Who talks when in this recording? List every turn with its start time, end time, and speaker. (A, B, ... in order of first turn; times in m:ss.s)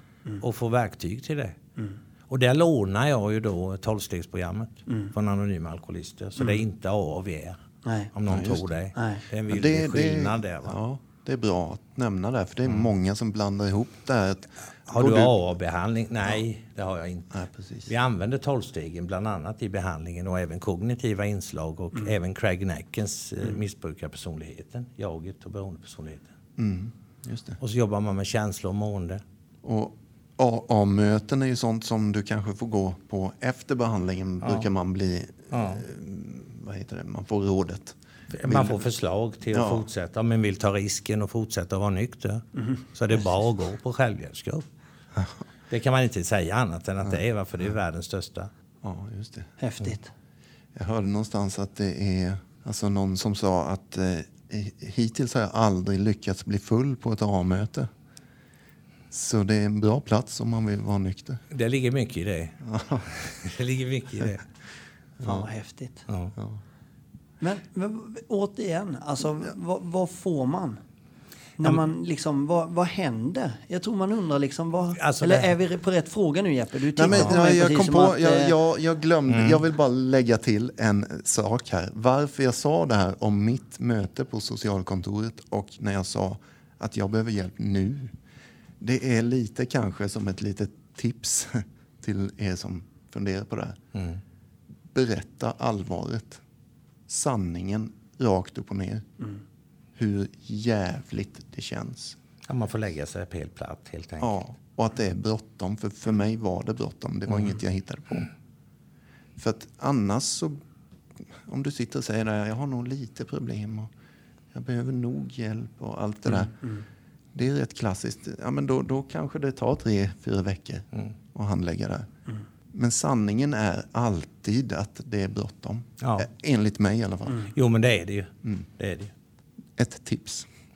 0:00.4-0:01.6 A
0:02.3-0:07.6 A
0:06.4-0:06.6 B
0:07.8-0:08.1 B
0:08.1-0:10.8 A
0:08.2-0:08.7 C
0:08.9-0:09.2 B
0:09.5-0:15.3 C
0:14.9-0:17.4 A
0:17.3-0:17.9 C
0:17.9-0:26.3 A
0:26.6-0:27.6 C
0:27.6-0:29.2 A
0:29.6-0:38.8 C
0:34.4-0:34.7 A
0:35.5-0:35.8 A
0:38.3-0:44.6 A
0:39.5-0:39.9 C
0:45.7-0:48.5 A
0:48.8-0:49.5 C
0:49.6-0:50.1 B
0:50.7-0:57.9 C
0:59.1-1:01.4 C
1:01.5-1:04.4 A
1:02.6-1:03.1 C
1:05.2-1:06.0 B
1:06.1-1:06.3 A
1:07.4-1:10.8 B
1:11.6-1:18.5 B
1:15.0-1:15.5 A
1:16.9-1:28.1 C
1:19.3-1:19.6 A
1:28.8-1:33.8 C
1:33.9-1:34.2 A
1:34.9-1:36.4 C
1:37.1-1:39.0 C
1:39.9-1:42.2 C
1:42.5-1:44.4 A
1:44.2-1:48.3 C
1:49.4-1:50.6 C
1:51.2-1:53.9 C
1:54.5-1:56.6 C
1:57.3-2:02.1 C
2:02.7-2:07.5 C
2:06.0-2:06.3 A
2:07.5-2:09.1 A
2:09.8-2:10.5 C